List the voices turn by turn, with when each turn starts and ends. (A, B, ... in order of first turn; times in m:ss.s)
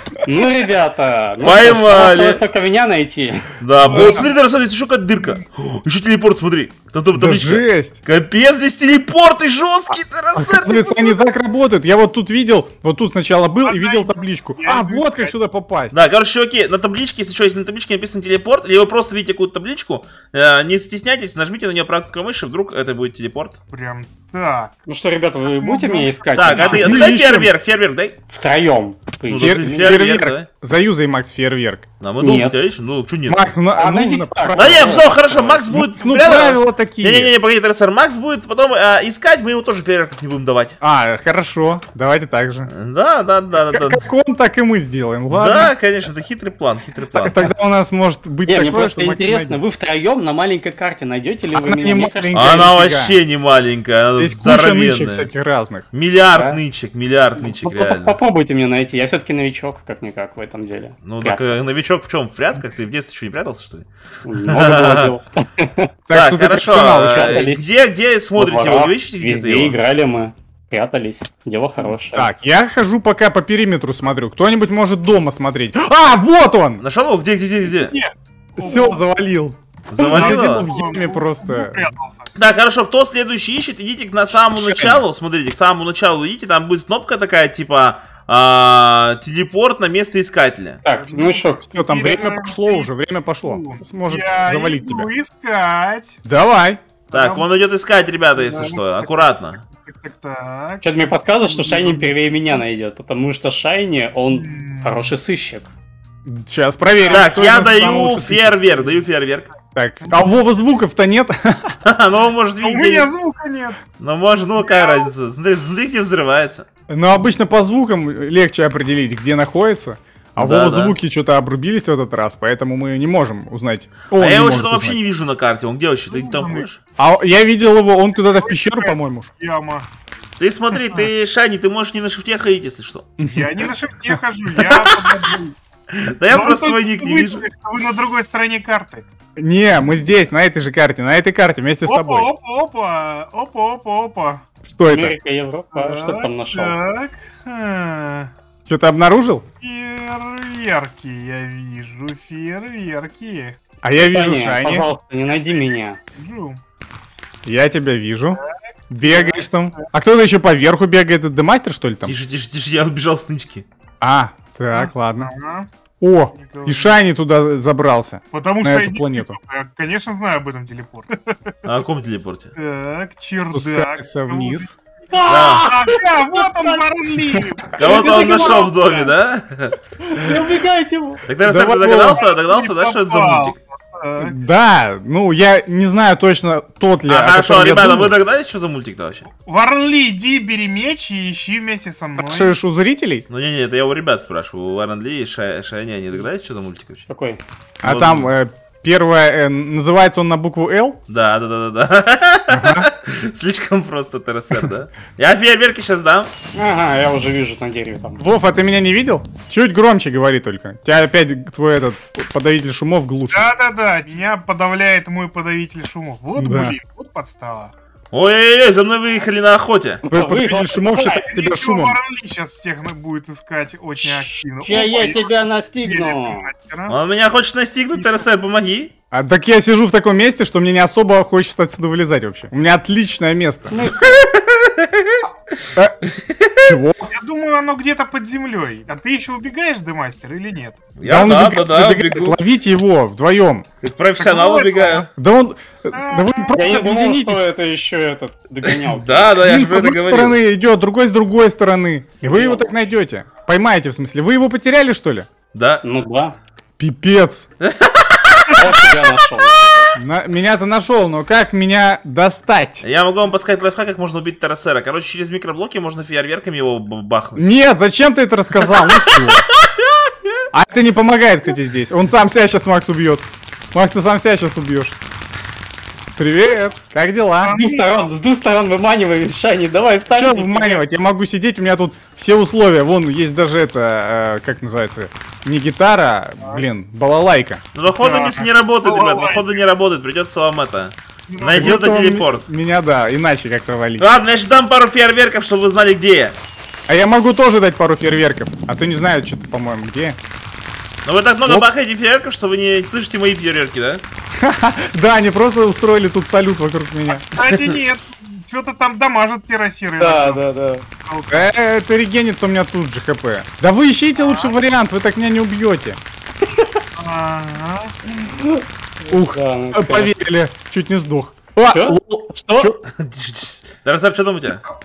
0:00.2-0:03.5 A
0:01.4-0:02.4 B
0:03.6-0:11.2 B
0:03.8-0:04.1 C
0:03.9-0:04.4 D
0:07.1-0:08.0 C
0:10.3-0:16.0 C
0:13.6-0:15.3 D
0:15.9-0:23.6 B
0:23.7-0:24.7 D
0:24.9-0:26.9 A
0:25.5-0:26.9 D
0:26.3-0:28.2 B
0:26.7-0:27.5 C
0:28.3-0:30.0 A
0:29.3-0:30.5 B
0:29.4-0:31.8 C
0:32.0-0:33.5 B
0:32.2-0:32.5 A
0:33.3-0:35.1 C
0:33.7-0:35.6 A
0:34.6-0:40.8 B
0:35.7-0:37.3 C
0:40.8-0:42.7 C
0:42.7-0:44.0 B
0:43.7-0:45.7 C
0:45.3-0:47.4 B
0:47.1-0:49.6 C
0:48.4-0:52.5 A
0:51.5-0:53.2 C
0:52.3-0:55.3 B
0:54.2-0:55.8 C
0:55.9-0:58.2 B
0:56.3-0:56.6 A
0:57.4-1:01.6 A
1:01.0-1:05.1 B
1:04.2-1:05.9 A
1:06.1-1:07.5 C
1:06.1-1:09.7 B
1:06.9-1:07.7 A
1:08.4-1:12.3 A
1:12.1-1:16.8 C
1:16.8-1:17.9 B
1:17.7-1:19.0 D
1:18.6-1:21.9 C
1:19.9-1:20.7 B
1:20.0-1:22.3 D
1:22.4-1:30.8 B
1:24.3-1:25.0 C
1:30.8-1:31.6 A
1:31.0-1:32.9 D
1:31.6-1:35.1 C
1:33.4-1:36.2 D
1:36.2-1:36.8 C
1:37.1-1:37.6 D
1:37.1-1:39.6 B
1:38.4-1:40.8 D
1:40.8-1:45.7 A
1:41.4-1:42.1 D
1:44.3-1:45.1 D
1:46.2-1:48.8 C
1:47.1-1:49.5 B
1:49.7-1:51.8 C
1:50.0-1:50.3 D
1:51.8-1:53.1 B
1:52.6-1:53.8 D
1:54.0-1:56.6 B
1:54.6-1:55.1 D
1:56.9-2:05.0 C
2:00.4-2:01.0 B
2:04.1-2:06.8 B
2:06.1-2:06.6 D
2:07.0-2:09.3 C
2:08.3-2:09.9 D
2:10.4-2:13.1 B
2:10.7-2:11.1 D
2:13.2-2:13.5 C
2:13.3-2:15.5 D
2:14.6-2:15.3 B
2:15.9-2:17.4 B
2:16.3-2:19.0 D
2:19.4-2:22.3 C
2:21.8-2:24.4 D
2:24.7-2:25.2 C
2:24.9-2:26.8 A
2:25.7-2:28.3 D
2:28.6-2:29.4 C
2:29.6-2:33.6 D
2:33.8-2:34.8 C
2:34.0-2:36.0 A
2:36.1-2:36.6 D
2:37.4-2:42.1 C
2:39.0-2:39.4 D
2:42.0-2:43.6 B
2:44.0-2:45.3 C
2:44.7-2:45.7 D
2:46.0-2:49.4 C
2:46.3-2:46.9 D
2:48.3-2:51.5 D
2:51.6-2:52.5 B
2:52.5-2:54.7 D
2:53.5-2:54.7 C
2:55.1-2:56.9 A
2:55.2-2:55.7 B
2:55.6-2:59.1 D
2:57.7-2:59.8 B
2:57.8-2:58.7 A
3:00.2-3:01.2 A
3:01.3-3:03.6 B
3:01.4-3:02.2 C
3:02.2-3:04.4 D
3:04.2-3:08.1 C
3:07.1-3:09.3 B
3:09.4-3:12.6 D
3:12.2-3:13.2 C
3:13.3-3:17.0 B
3:17.1-3:17.4 A
3:17.8-3:21.0 C
3:17.8-3:18.3 B
3:21.1-3:26.3 B
3:22.5-3:22.9 C
3:26.5-3:28.2 A
3:28.2-3:33.5 C
3:33.3-3:37.7 D
3:36.4-3:36.8 C
3:38.1-3:40.0 B
3:40.1-3:42.0 C
3:40.1-3:41.2 A
3:41.2-3:45.3 D
3:44.0-3:46.5 A
3:45.8-3:47.0 D
3:46.9-3:48.9 B
3:47.9-3:48.2 D
3:49.1-3:53.9 C
3:53.7-3:54.3 A
3:54.0-3:55.2 B
3:56.0-3:56.7 B
3:56.6-3:57.1 C
3:57.1-4:00.8 D
4:01.0-4:02.4 B
4:01.0-4:03.6 C
4:03.8-4:05.1 B
4:04.2-4:05.1 D
4:05.1-4:07.4 C
4:05.9-4:06.6 D
4:06.5-4:09.4 A
4:08.6-4:10.4 B
4:09.4-4:15.3 C
4:12.2-4:12.6 A
4:15.5-4:15.8 B
4:15.8-4:16.4 A
4:16.8-4:17.5 C
4:17.6-4:19.0 B
4:18.5-4:19.9 A
4:20.0-4:22.8 C
4:22.8-4:27.5 B
4:27.4-4:29.4 C
4:28.9-4:30.3 B
4:30.5-4:34.9 C
4:36.2-4:37.5 C
4:37.4-4:38.1 D
4:37.5-4:40.8 A
4:40.1-4:47.6 C
4:47.7-4:52.5 B
4:47.9-4:49.6 D
4:51.3-4:51.9 D
4:51.5-4:54.0 C
4:54.0-4:56.3 B
4:56.9-5:00.2 C
5:01.0-5:04.0 B
5:04.4-5:07.2 C
5:07.1-5:10.4 D
5:10.0-5:10.8 A
5:11.0-5:11.5 D
5:11.3-5:16.0 C
5:14.2-5:14.5 D
5:17.0-5:17.9 D
5:18.2-5:20.1 A
5:19.1-5:22.8 C
5:21.7-5:22.7 A
5:22.9-5:24.6 B